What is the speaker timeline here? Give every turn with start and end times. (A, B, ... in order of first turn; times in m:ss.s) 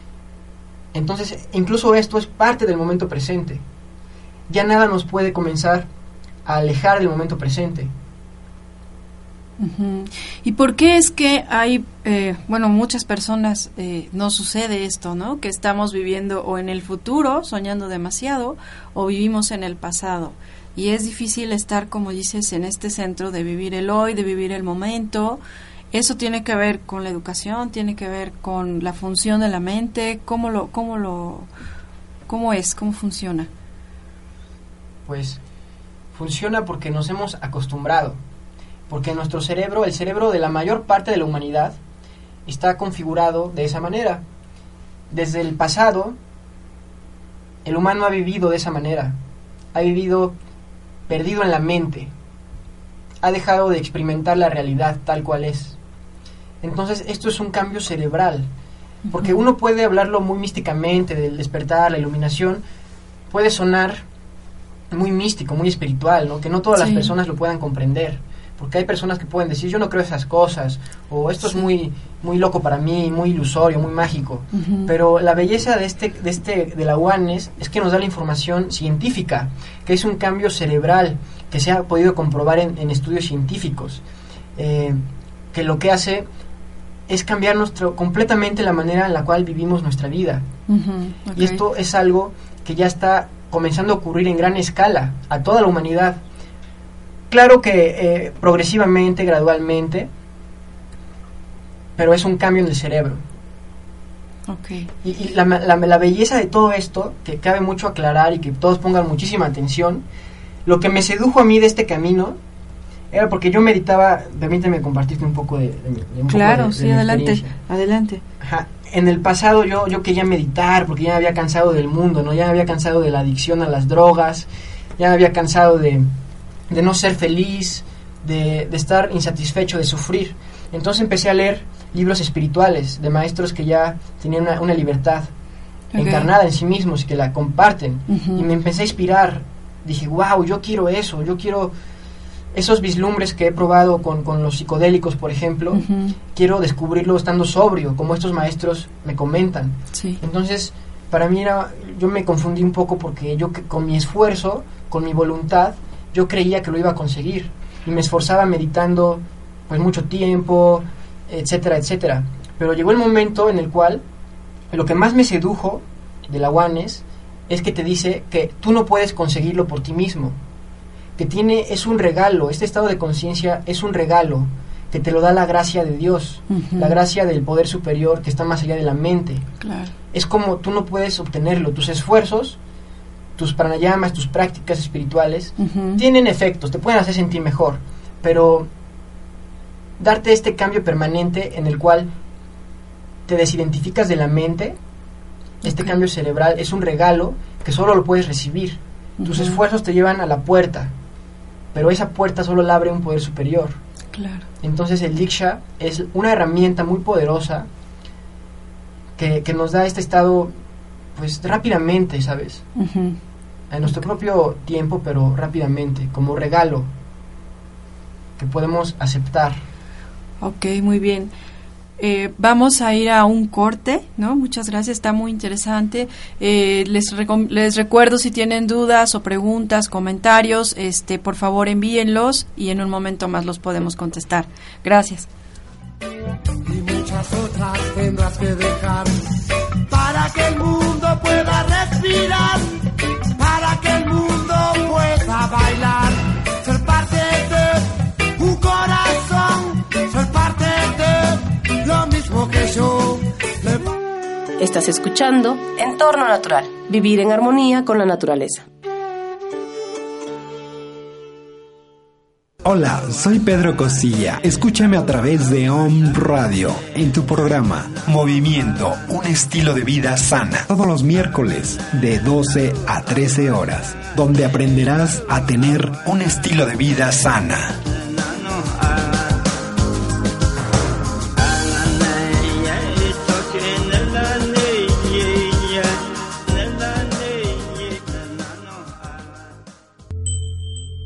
0:00.9-0:03.6 A
0:04.5-0:05.9 A
0:06.5-0:07.9 A
0:09.6-0:25.4 B
0:25.9-0:31.5 B
0:32.3-0:33.5 B
0:35.1-0:35.4 A
0:36.1-0:38.2 A
0:38.9-0:41.8 A
0:42.5-0:44.2 A
0:45.1-0:46.2 A
0:47.6-0:49.2 A
0:49.7-0:50.4 A
0:51.1-0:52.1 A
0:53.2-0:55.8 A
0:56.6-0:58.5 A
0:59.1-0:59.4 B
0:59.1-1:02.6 A
1:03.3-1:04.0 A
1:04.9-1:24.0 A
1:06.8-1:07.1 B
1:14.5-1:14.9 B
1:24.6-1:25.0 A
1:25.5-1:26.3 A
1:27.1-1:30.5 A
1:30.7-1:31.6 B
1:31.4-1:36.2 A
1:37.3-1:40.1 A
1:42.0-1:43.2 A
1:44.5-1:44.9 B
1:45.0-1:50.0 A
1:50.7-1:52.4 A
1:53.1-1:57.6 A
1:56.3-1:58.2 B
1:58.4-2:06.1 A
2:06.7-2:15.3 A
2:15.9-2:16.3 B
2:16.0-2:21.7 A
2:18.1-2:18.5 B
2:22.5-2:44.0 A
2:25.8-2:26.2 B
2:29.9-2:30.2 B
2:44.7-2:50.4 A
2:51.2-2:59.4 A
2:56.5-2:56.9 B
2:59.6-2:59.9 B
3:00.1-3:02.6 A
3:03.4-3:08.7 A
3:05.6-3:06.0 B
3:10.0-3:12.1 A
3:13.3-3:14.8 A
3:15.6-3:20.9 A
3:15.6-3:16.0 B
3:19.2-3:19.6 B
3:21.7-3:23.8 A
3:24.1-3:24.5 B
3:24.6-3:27.7 A
3:29.2-3:30.5 A
3:31.2-3:32.6 A
3:32.8-3:33.2 B
3:33.7-3:36.9 A
3:38.4-3:39.6 A
3:40.4-3:41.3 B
3:42.0-3:55.3 B
3:56.7-3:59.1 C
3:59.9-4:02.6 C
4:03.4-4:07.8 C
4:08.4-4:13.8 C
4:14.6-4:18.7 D
4:22.6-4:37.8 E